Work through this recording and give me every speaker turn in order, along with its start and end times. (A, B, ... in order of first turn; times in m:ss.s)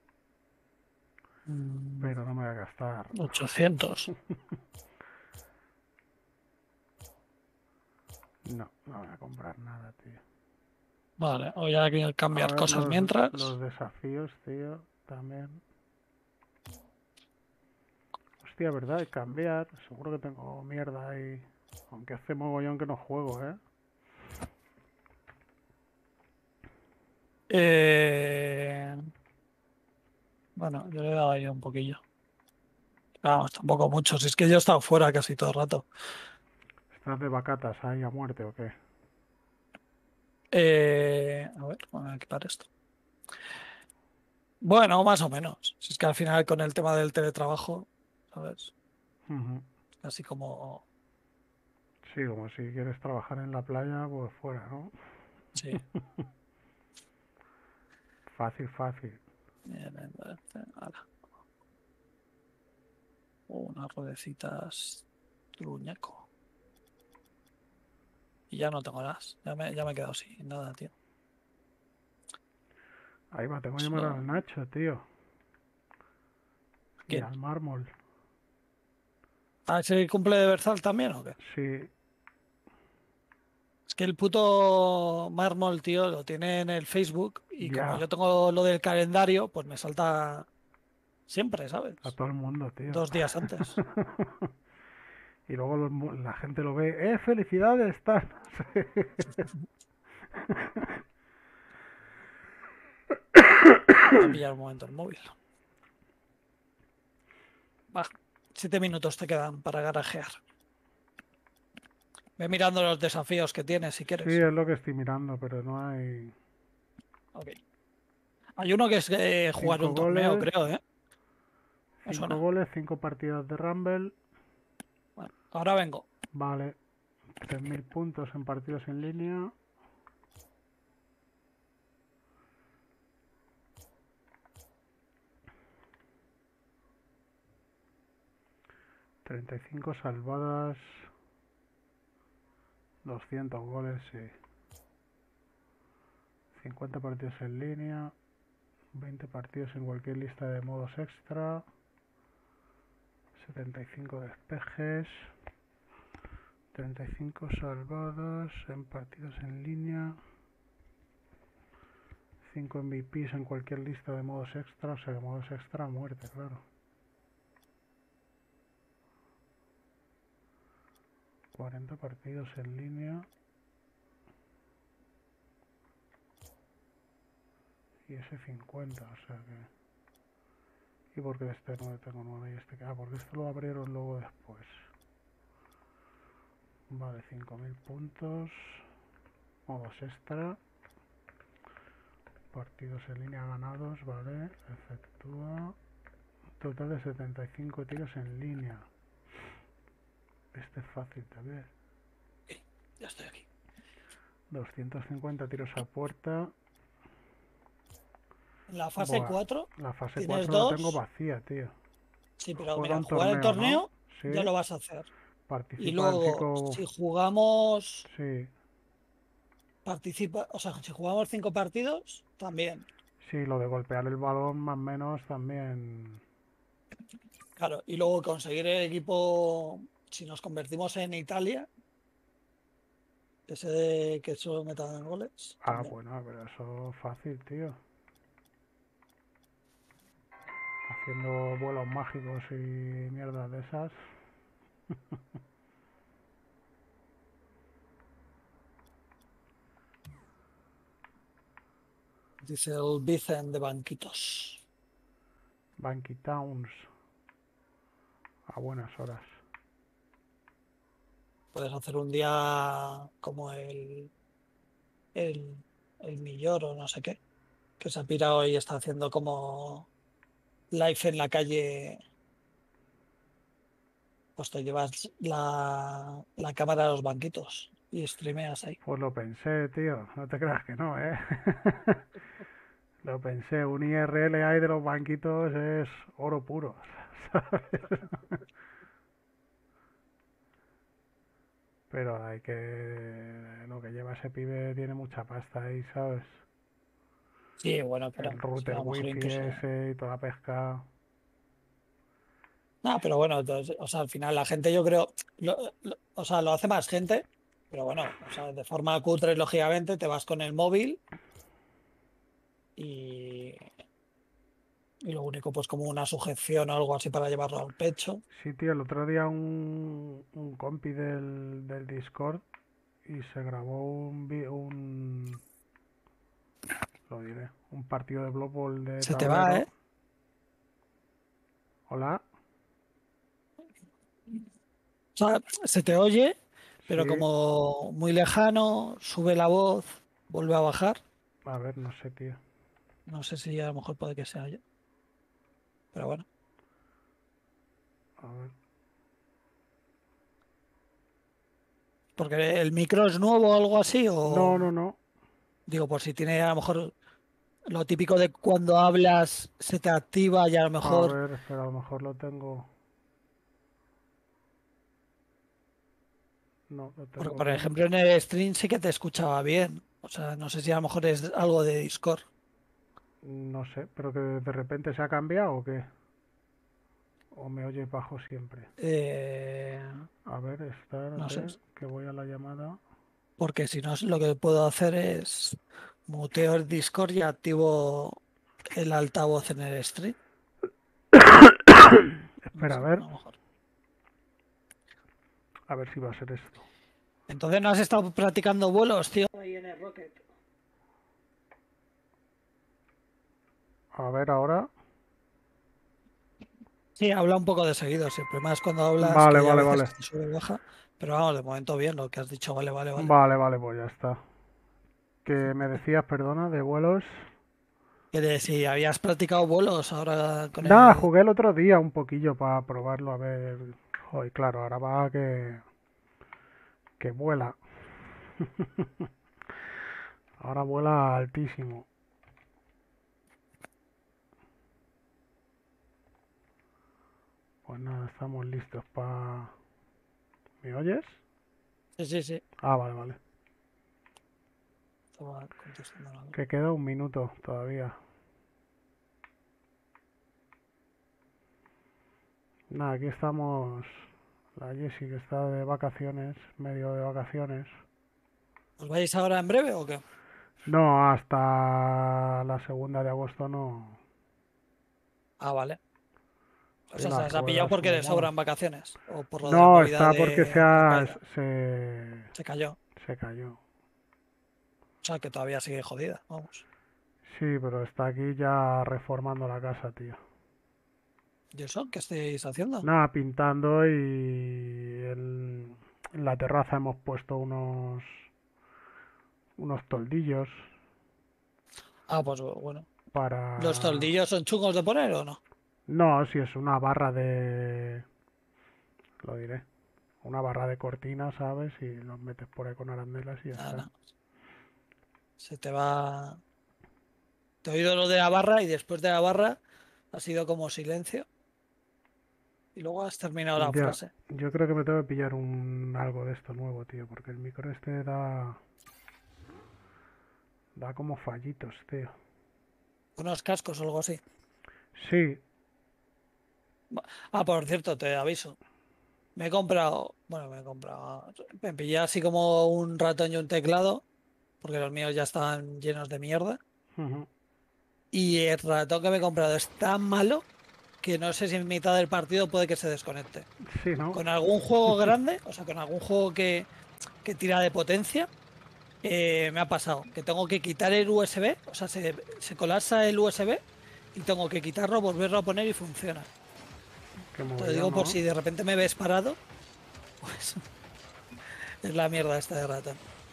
0:01.5-0:02.1 A
0:02.0-0:03.5 B
0:03.1-0:04.1 A
0:08.4-0:10.2 B
0:11.2-0:13.5 A
0:12.3-0:15.6 B
0:18.4-0:23.6 B
0:27.5-0:29.1 A
0:30.6-0:32.0 A
0:33.2-0:35.9 A
0:36.9-0:38.7 B
0:40.5-0:42.7 A
0:44.6-0:48.7 A
0:49.3-0:49.6 B
0:50.0-0:50.8 A
0:52.0-0:54.9 B
0:55.5-0:55.8 A
0:58.3-0:59.2 B
0:59.7-1:01.0 A
1:03.5-1:06.3 A
1:08.5-1:10.9 A
1:13.3-1:15.0 B
1:13.8-1:14.2 A
1:17.1-1:17.9 B
1:19.7-1:21.4 A
1:21.4-1:21.9 B
1:23.9-1:30.5 A
1:27.6-1:28.0 B
1:31.3-1:32.1 A
1:32.0-1:34.5 B
1:32.9-1:33.8 A
1:35.5-1:39.5 B
1:40.4-1:41.0 B
1:43.4-1:44.2 B
1:44.1-1:45.3 A
1:47.9-1:50.4 A
1:52.4-1:54.4 A
1:54.2-1:56.3 B
1:57.3-1:57.6 A
1:58.6-2:00.8 A
1:59.6-2:00.5 B
2:02.0-2:04.1 B
2:02.0-2:02.4 A
2:05.2-2:06.0 A
2:06.3-2:06.8 B
2:07.4-2:09.5 B
2:19.2-2:21.1 B
2:23.0-2:24.3 B
2:26.5-2:28.1 B
2:28.9-2:31.6 B
2:33.4-2:35.3 B
2:36.7-2:40.2 B
2:42.4-2:46.6 B
2:51.5-2:53.3 B
2:58.1-2:59.7 B
3:01.1-3:04.8 B
3:06.9-3:08.9 B
3:09.7-3:10.6 B
3:12.5-3:15.8 B
3:16.6-3:18.9 B
3:20.5-3:21.7 B
3:22.5-3:23.5 A
3:24.5-3:26.5 B
3:28.7-3:31.0 A
3:29.0-3:31.7 B
3:32.4-3:35.1 A
3:32.6-3:34.5 B
3:35.5-3:36.8 B
3:35.8-3:38.1 A
3:38.0-3:38.5 B
3:39.8-3:42.8 A
3:43.2-3:46.2 B
3:47.6-3:51.7 A
3:53.5-3:55.9 A
3:55.6-3:57.8 B
4:00.9-4:04.0 B
4:12.4-4:14.6 A
4:15.8-4:16.9 B
4:18.5-4:19.4 B
4:21.5-4:24.1 A
4:25.1-4:27.2 A
4:27.8-4:29.9 A
4:30.7-4:32.0 A
4:34.4-4:38.8 A
4:38.8-4:42.0 B
4:43.0-4:48.4 B
4:51.9-4:56.4 B
4:57.6-4:59.6 A
4:58.2-5:00.9 B
5:02.8-5:11.0 A
5:12.8-5:13.7 A
5:15.0-5:18.2 A
5:18.3-5:22.4 B
5:23.0-5:25.4 B
5:27.1-5:29.7 B
5:29.0-5:29.7 A
5:31.9-5:32.2 B
5:35.2-5:36.4 A
5:36.8-5:37.3 B
5:36.9-5:41.0 A
5:41.5-5:42.4 B
5:43.1-5:44.6 A
5:45.9-5:46.2 A
5:48.2-5:48.5 B
5:52.2-5:54.6 A
5:54.2-5:55.0 B
5:55.7-5:56.9 A
5:57.7-6:01.2 A
6:00.8-6:02.7 B
6:06.7-6:07.8 B
6:07.2-6:12.2 A
6:13.2-6:15.9 B
6:17.3-6:18.7 B
6:18.8-6:20.1 A
6:20.2-6:22.8 B
6:21.2-6:21.6 A
6:23.4-6:30.2 A
6:31.1-6:33.0 B
6:32.5-6:33.4 A
6:35.7-6:36.7 B
6:37.3-6:40.2 A
6:44.0-6:44.7 B
6:47.0-6:53.1 A
6:49.0-6:49.9 B
6:53.0-6:54.2 B
6:55.2-6:57.3 B
6:58.1-7:01.1 A
7:00.6-7:05.6 B
7:07.0-7:09.1 B
7:10.4-7:11.9 B
7:17.6-7:19.5 B
7:20.6-7:21.2 B
7:22.0-7:22.4 A
7:22.6-7:23.2 B
7:25.1-7:26.3 A
7:26.3-7:28.0 B
7:32.7-7:37.7 B
7:38.8-7:40.0 A
7:40.7-7:44.0 B
7:45.4-7:45.8 A
7:46.9-7:51.2 A
7:46.9-7:48.3 B
7:49.4-7:52.3 B
7:52.3-7:52.8 A
7:53.0-7:53.6 B
7:55.0-7:56.6 A
7:57.2-8:00.2 B
8:01.5-8:02.8 A
8:02.8-8:08.3 B
8:09.6-8:10.7 B
8:12.1-8:12.9 A
8:13.1-8:14.1 B
8:13.6-8:15.4 A
8:15.9-8:18.0 B
8:19.2-8:19.7 B
8:20.2-8:23.9 B
8:23.6-8:23.9 A
8:25.4-8:26.4 A
8:27.6-8:29.6 A
8:30.1-8:31.3 A
8:32.7-8:34.1 A
8:33.6-8:38.6 B
8:40.8-8:42.1 B
8:43.2-8:44.2 A
8:44.9-8:45.4 B
8:46.9-8:48.6 A
8:49.4-8:54.0 A
8:54.6-8:56.6 A
8:57.0-8:57.3 B
8:58.1-9:00.4 A
9:01.0-9:03.5 A
9:03.6-9:04.2 B
9:04.1-9:06.7 A
9:07.2-9:08.3 A
9:09.0-9:13.6 A
9:14.1-9:16.3 A
9:17.3-9:18.2 B
9:17.6-9:19.4 A
9:20.2-9:20.6 A
9:21.4-9:23.0 A